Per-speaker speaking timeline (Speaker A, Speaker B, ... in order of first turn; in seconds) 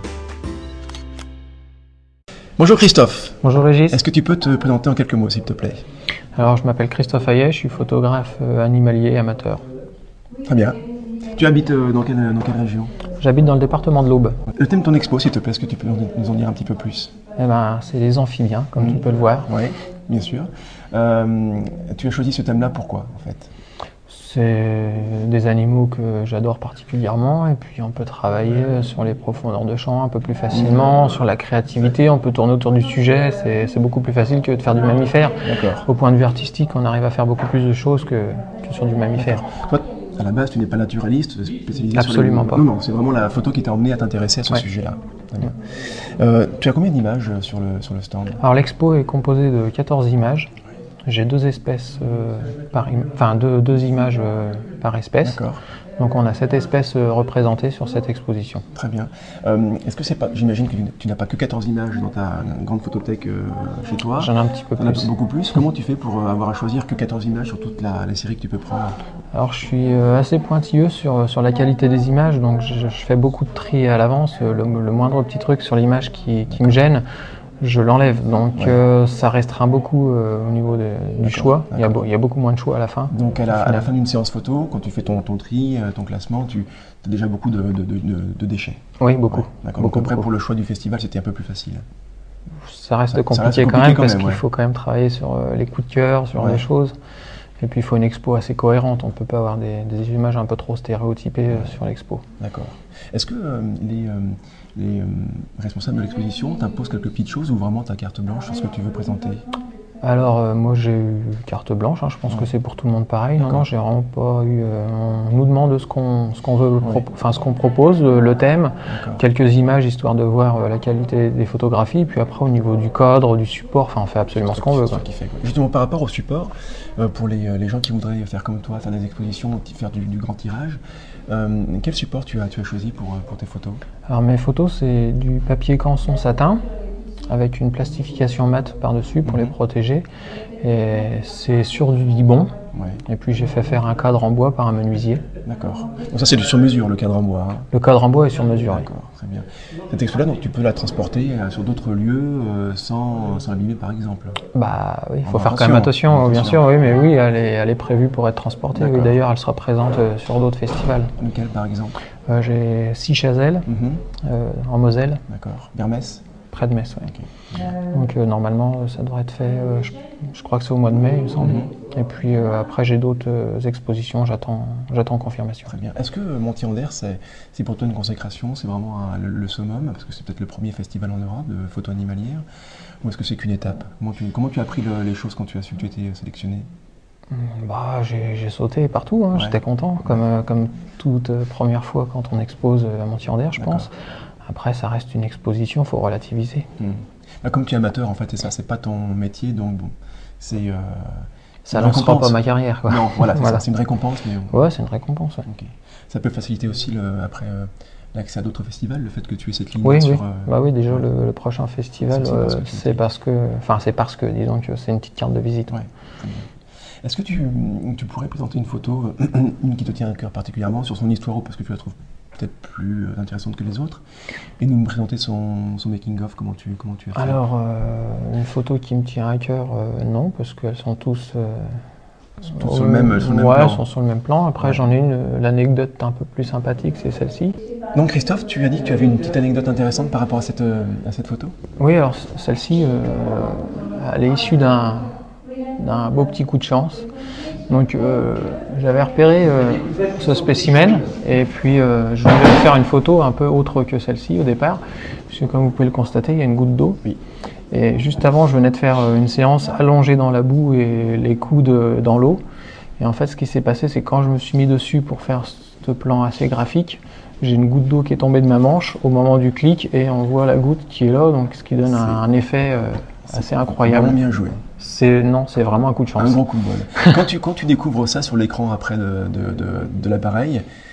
Speaker A: 2.6-3.4, 3.9-5.8, 10.4-10.8, 11.3-12.9, 14.6-17.1, 18.8-23.5, 30.5-30.9, 35.4-35.9, 39.2-45.5, 46.2-48.4, 55.2-55.6, 58.8-69.0, 76.5-76.8, 81.2-82.0, 83.1-88.8, 89.3-91.8, 93.1-94.4, 96.4-96.7, 102.4-109.4, 113.4-113.7, 118.9-119.2, 124.5-133.8, 139.2-139.5, 142.7-143.0, 145.4-147.7, 148.7-154.4, 155.2-156.7, 158.8-159.2, 161.2-161.9, 163.7-164.0, 165.3-166.2, 171.4-171.7, 175.7-182.4, 183.0-186.7, 189.3-189.6, 193.6-193.9, 196.8-204.5, 205.5-211.1, 212.1-213.0, 215.7-216.5, 217.0-224.0, 224.6-227.4, 232.5-233.8, 234.6-234.9, 237.9-241.5, 271.8-272.2, 273.3-274.6, 276.2-280.6
Speaker B: 3.4-4.0, 6.4-9.6, 13.2-14.4, 17.4-19.5, 24.1-39.4, 41.9-42.7, 48.4-50.5, 51.1-55.4, 56.0-58.7, 64.2-65.1, 69.3-77.0, 77.6-83.9, 89.0-90.3, 92.6-97.0, 97.6-102.2, 110.0-125.0, 134.1-136.6, 137.3-140.1, 140.6-142.5, 143.1-145.2, 147.7-148.9, 154.5-161.1, 162.3-163.7, 164.2-165.2, 166.5-175.7, 187.3-193.9, 194.4-196.7, 201.7-203.7, 204.5-205.5, 209.8-215.8, 227.2-231.8, 232.5-237.6, 241.8-245.1, 245.8-247.1, 247.7-257.0, 257.7-262.4, 263.0-276.4, 277.0-277.2